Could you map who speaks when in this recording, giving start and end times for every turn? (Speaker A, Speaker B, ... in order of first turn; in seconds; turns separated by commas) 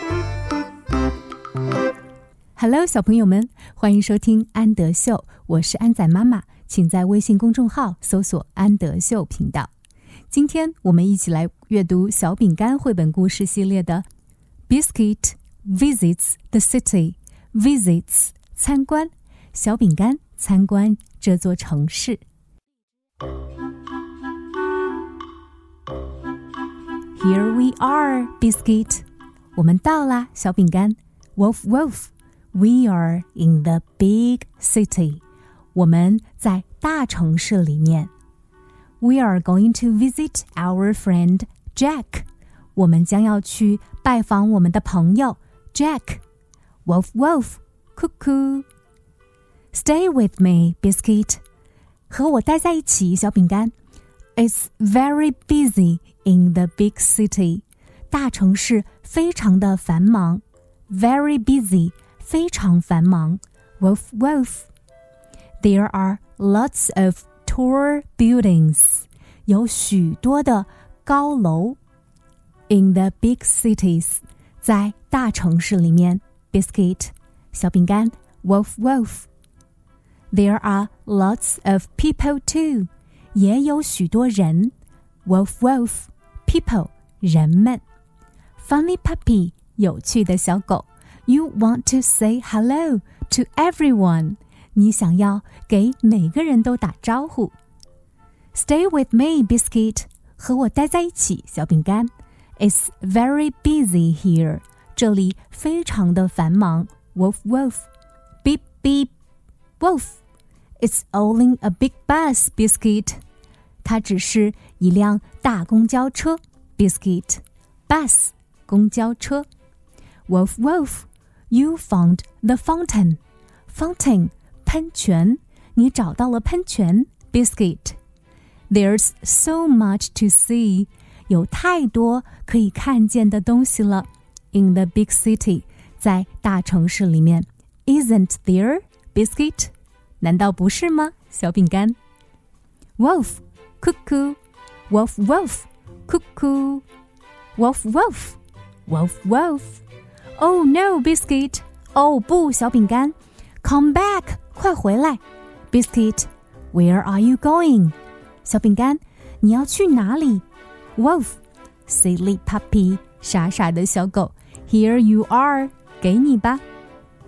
Speaker A: 2.6-9.7, Speaker A: 10.3-14.0, Speaker A: 14.7-22.2, Speaker A: 27.1-35.2, Speaker A: 35.7-38.1, Speaker A: 39.0-46.2, Speaker A: 46.9-48.7, Speaker A: 49.7-51.4, Speaker A: 52.1-53.7, Speaker A: 54.4-64.7, Speaker A: 65.6-71.8, Speaker A: 72.7-79.3, Speaker A: 80.3-84.7, Speaker A: 85.2-87.8, Speaker A: 88.6-97.5, Speaker A: 98.5-107.9, Speaker A: 108.4-109.1, Speaker A: 109.8-110.2, Speaker A: 110.8-113.2, Speaker A: 113.8-119.5, Speaker A: 120.3-128.0, Speaker A: 128.7-142.0, Speaker A: 143.0-146.8, Speaker A: 147.6-149.8, Speaker A: 150.4-160.4, Speaker A: 161.0-166.6